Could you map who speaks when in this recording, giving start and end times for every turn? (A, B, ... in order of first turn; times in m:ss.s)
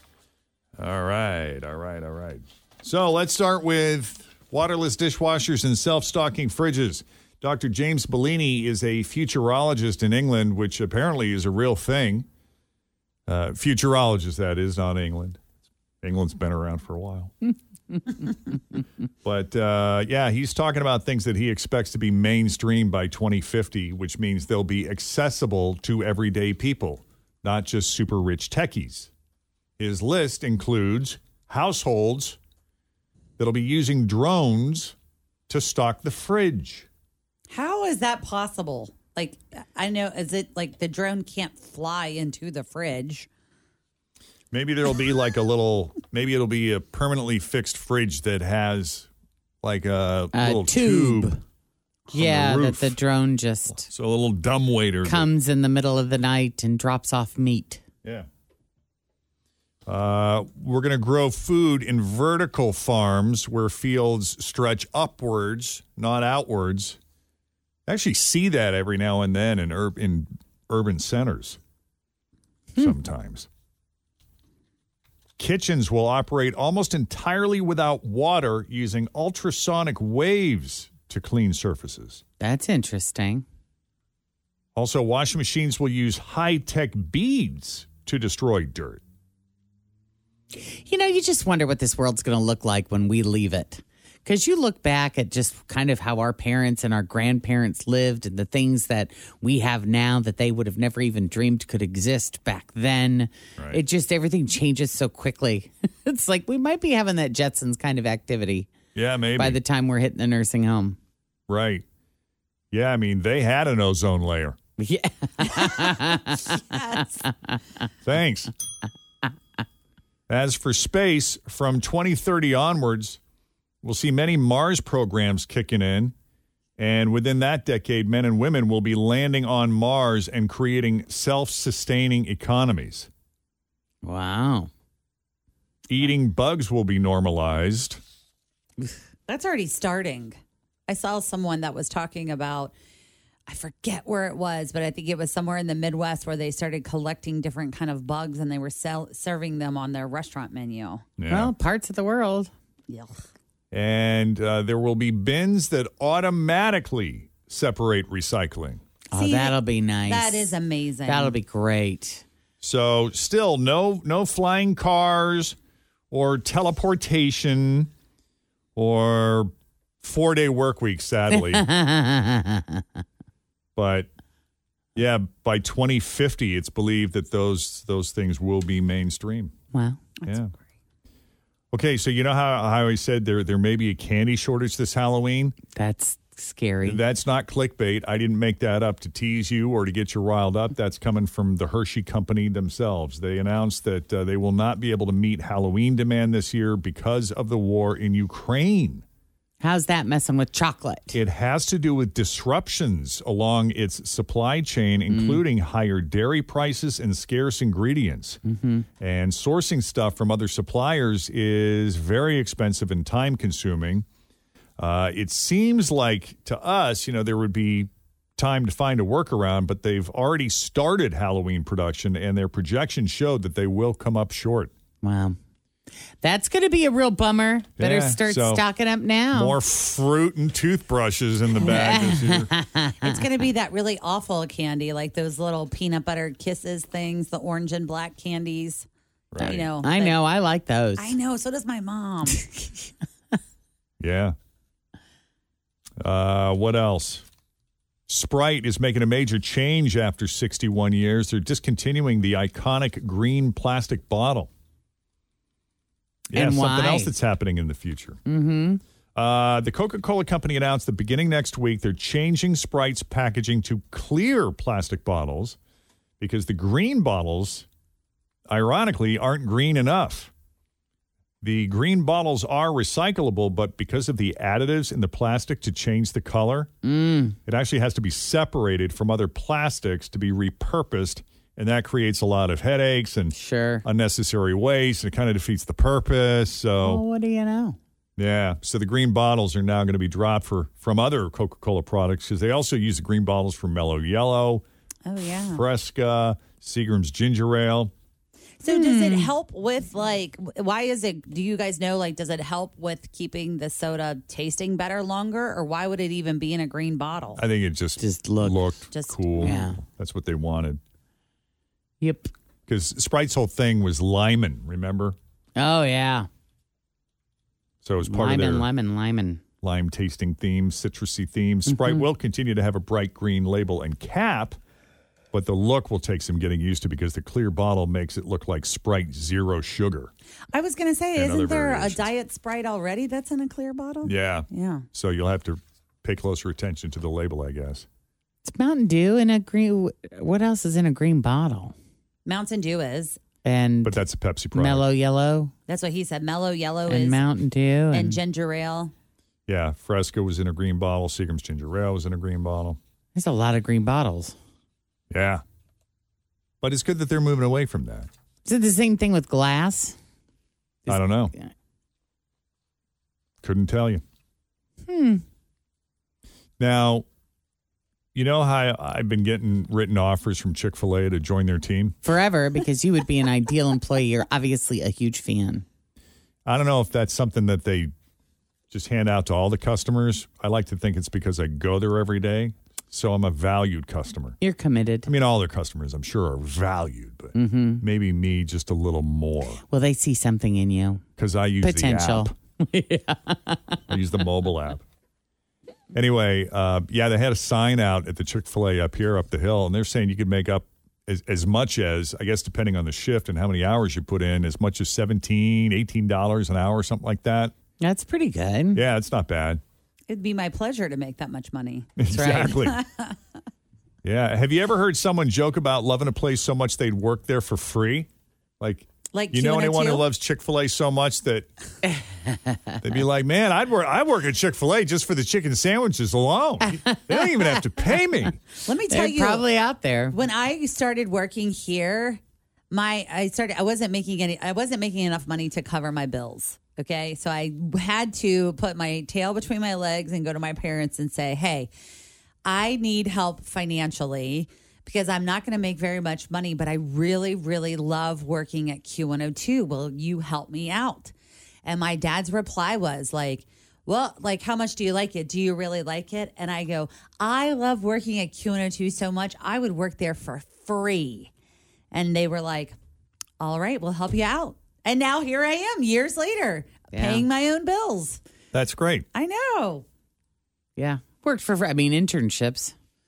0:00.8-0:12.2 A
0:13.3-0:15.4 A
0:16.0-0:17.3 A
0:19.2-0:29.1 A
0:29.8-0:32.4 A
0:33.4-0:34.9 A
0:35.5-0:36.9 A
0:37.5-0:43.3 B
0:44.5-0:49.1 A
0:49.6-0:51.3 A
0:50.3-0:51.4 C
0:52.1-0:53.9 C
0:52.1-0:53.0 A
0:53.7-0:55.3 A
0:55.0-0:57.8 C
0:59.9-1:07.0 A
1:07.9-1:11.6 A
1:12.8-1:13.5 A
1:15.4-1:22.2 A
1:22.4-1:23.4 C
1:24.8-1:29.0 A
1:30.7-1:48.7 C
1:43.6-1:43.8 A
1:48.9-1:49.6 A
1:49.4-1:51.0 C
1:51.5-1:51.8 A
1:52.7-1:54.6 A
1:54.8-1:57.5 C
1:56.6-1:57.2 B
1:58.0-1:58.5 A
2:00.3-2:03.2 A
2:03.8-2:06.1 A
2:06.8-2:13.1 A
2:14.0-2:14.7 C
2:15.9-2:18.0 A
2:19.3-2:22.7 B
2:23.5-2:31.0 B
2:31.2-2:31.5 A
2:31.3-2:32.5 C
2:32.9-2:33.2 B
2:33.7-2:38.8 A
2:39.1-2:42.2 C
2:39.1-2:41.4 B
2:42.6-2:45.6 A
2:46.1-2:47.9 A
2:48.8-2:49.5 A
2:50.0-2:51.6 A
2:51.3-2:52.8 C
2:53.8-2:54.1 A
2:54.9-2:59.5 A
2:59.7-3:00.1 C
3:00.2-3:00.5 B
3:00.2-3:00.5 A
3:01.7-3:05.6 A
3:05.7-3:07.0 C
3:06.8-3:19.0 A
3:19.6-3:21.2 C
3:21.1-3:28.4 A
3:25.1-3:25.4 C
3:28.4-3:28.8 C
3:29.0-3:34.0 A
3:34.8-3:44.7 A
3:45.0-3:45.4 C
3:46.2-3:49.6 C
3:47.8-3:48.6 A
3:49.3-3:52.5 A
3:51.6-3:53.1 C
3:53.0-3:58.9 B
3:59.3-3:59.6 A
3:59.4-4:00.2 B
3:59.5-4:01.2 C
4:01.0-4:02.4 B
4:04.0-4:04.3 A
4:06.0-4:07.2 A
4:08.1-4:14.5 A
4:16.3-4:17.1 C
4:16.3-4:18.2 A
4:18.3-4:18.8 C
4:19.1-4:25.6 A
4:26.2-4:27.7 A
4:28.5-4:30.3 A
4:31.4-4:36.7 A
4:36.8-4:37.4 C
4:37.4-4:47.0 A
4:43.3-4:43.8 C
4:46.8-4:47.8 C
4:48.2-4:54.6 A
4:55.0-4:55.6 B
4:55.5-4:57.9 A
4:58.6-5:07.4 B
4:58.7-4:59.3 C
5:07.4-5:10.8 A
5:08.0-5:08.7 C
5:08.9-5:09.6 B
5:09.4-5:09.8 C
5:12.0-5:12.3 C
5:12.7-5:15.2 A
5:15.6-5:16.3 C
5:17.8-5:18.7 A
5:18.0-5:19.4 C
5:19.6-5:24.6 A
5:21.7-5:22.0 C
5:25.3-5:30.1 A
5:30.5-5:34.8 B
5:31.2-5:32.1 A
5:34.0-5:37.8 A
5:38.4-5:41.7 C
5:42.2-5:43.2 B
5:43.4-5:45.5 C
5:43.8-5:44.8 A
5:45.7-5:47.2 B
5:46.9-5:48.2 C
5:47.9-5:48.9 B
5:49.5-5:52.8 A
5:53.2-5:54.3 C
5:55.1-5:55.4 A
5:56.6-5:58.1 A
5:58.4-5:59.9 C
6:00.8-6:01.5 C
6:00.9-6:01.3 A
6:03.4-6:04.0 A
6:04.9-6:05.2 C
6:06.6-6:07.0 A
6:08.1-6:12.0 A
6:12.0-6:15.6 C
6:16.4-6:17.9 A
6:18.7-6:24.4 A
6:24.4-6:25.1 C
6:25.0-6:29.6 A
6:27.3-6:27.8 C
6:29.7-6:31.0 C
6:31.2-6:32.3 A
6:31.6-6:33.8 C
6:33.9-6:34.8 A
6:35.9-6:47.5 A
6:47.8-6:48.8 C
6:48.7-6:49.6 A
6:50.1-6:53.1 B
6:52.0-6:52.8 A
6:52.1-6:52.5 C
6:54.0-6:58.1 A
6:58.6-7:01.5 A
6:59.1-7:00.0 B
7:01.9-7:02.8 C
7:02.8-7:08.3 A
7:06.7-7:08.0 C
7:08.6-7:09.4 B
7:08.9-7:10.2 C
7:10.1-7:12.2 B
7:12.7-7:21.7 B
7:22.4-7:41.3 B
7:41.9-7:42.8 B
7:43.4-7:48.2 B
7:46.9-7:47.3 C
7:48.5-7:49.0 A
7:49.1-7:49.8 B
7:50.8-7:52.7 C